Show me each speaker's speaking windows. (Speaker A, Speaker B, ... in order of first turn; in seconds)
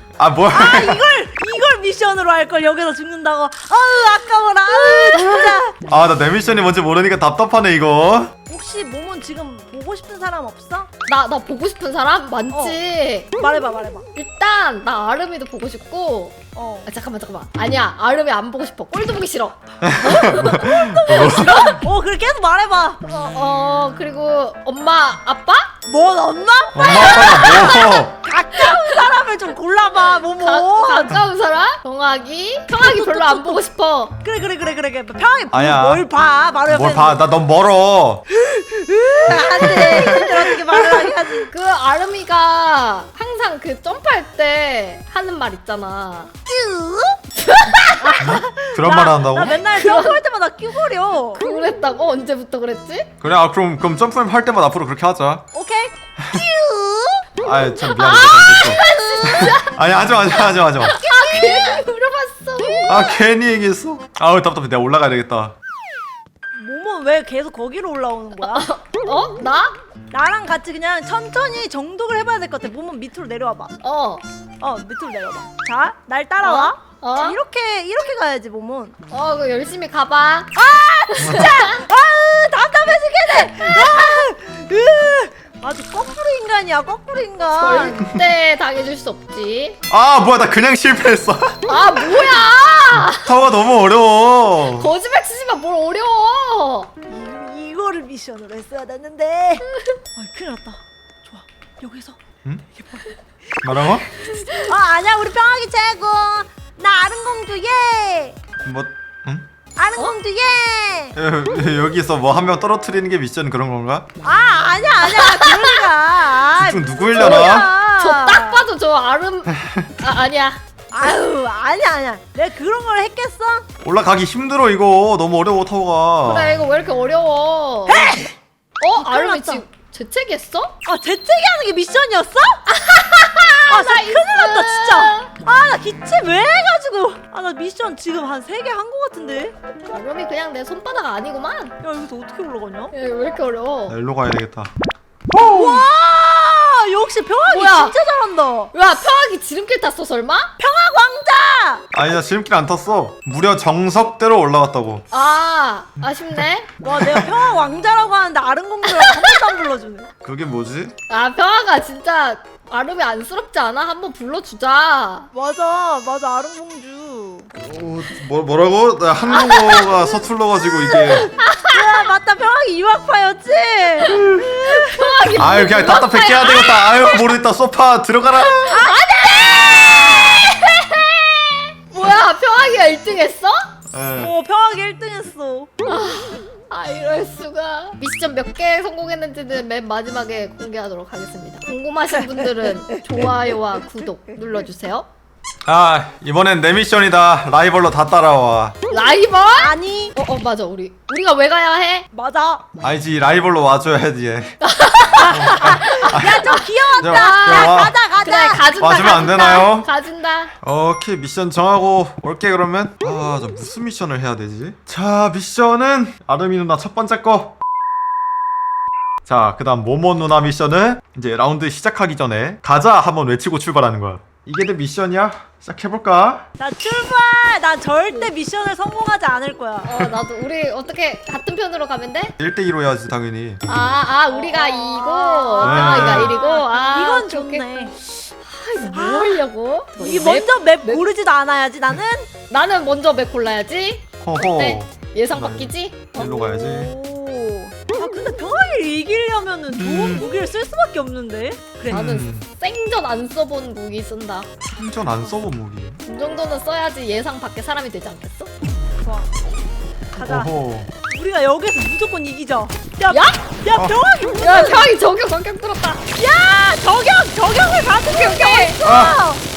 Speaker A: 0.2-1.0, 5.2-8.3, 19.8-21.7, 26.8-28.1, 35.5-36.1, 36.7-38.2, 39.3-40.3, 48.2-49.6, 53.2-55.5, 57.4-61.0, 62.9-65.5, 81.2-81.5, 89.9-91.6, 92.9-94.9, 103.6-104.1, 108.6-109.5, 111.2-114.1, 116.6-117.7, 119.6-119.9, 123.8-126.6, 143.9-144.7, 151.9-155.1, 160.2-160.9, 167.6-171.3, 175.4-178.8, 183.9-184.3, 195.7-198.8, 202.8-204.6, 205.3-206.5, 207.0-207.9, 208.8-209.9, 210.6-217.6, 219.2-226.5, 232.4-233.6, 235.6-236.4, 244.2-246.9, 249.8-250.3, 251.9-252.5, 254.8-256.0, 260.2-260.9, 263.7-264.0, 268.8-269.2
Speaker B: 0.5-5.7, 8.5-10.9, 12.5-12.8, 13.4-14.1, 16.6-16.9, 20.2-23.0, 25.9-31.2, 32.7-33.6, 34.2-37.2, 38.3-41.5, 46.5-47.2, 48.0-51.4, 55.5-57.3, 61.1-61.8, 66.6-68.7, 70.1-73.8, 74.6-79.0, 80.6-88.0, 97.1-102.2, 102.8-103.9, 104.5-108.4, 109.8-111.2, 114.2-118.6, 120.9-123.7, 127.9-128.3, 129.0-129.6, 130.8-132.6, 133.7-139.6, 141.8-142.9, 145.4-148.7, 150.6-151.8, 156.8-160.1, 165.3-167.5, 171.0-175.3, 178.7-179.8, 184.2-185.7, 199.6-200.1, 202.1-202.7, 205.2-208.7, 226.6-229.9, 234.3-237.9, 238.8-242.3, 246.2-252.1, 259.0-259.3, 260.1-260.5, 261.1-264.9, 266.2-269.4
Speaker C: 11.1-13.3, 14.2-21.7, 23.1-25.7, 26.8-28.0, 30.3-34.1, 41.5-46.3, 47.4-48.1, 49.6-50.2, 51.4-53.1, 57.8-59.7, 60.8-63.2, 68.5-69.8, 73.8-74.2, 76.4-77.4, 79.1-80.5, 81.2-81.8, 87.5-89.8, 91.7-93.3, 94.7-96.9, 115.0-115.8, 117.2-121.2, 126.3-128.1, 128.8-130.8, 132.7-135.3, 139.9-141.7, 142.9-144.0, 147.5-148.0, 148.7-150.5, 155.1-156.7, 158.8-159.4, 161.1-165.3, 169.3-170.0, 170.9-171.8, 174.1-177.2, 178.4-183.7, 185.8-195.1, 198.9-202.1, 204.6-210.5, 229.8-232.3, 233.7-241.1, 242.5-246.3, 251.9-254.5, 256.1-258.5, 263.1-263.4, 264.4-266.1, 268.1-268.8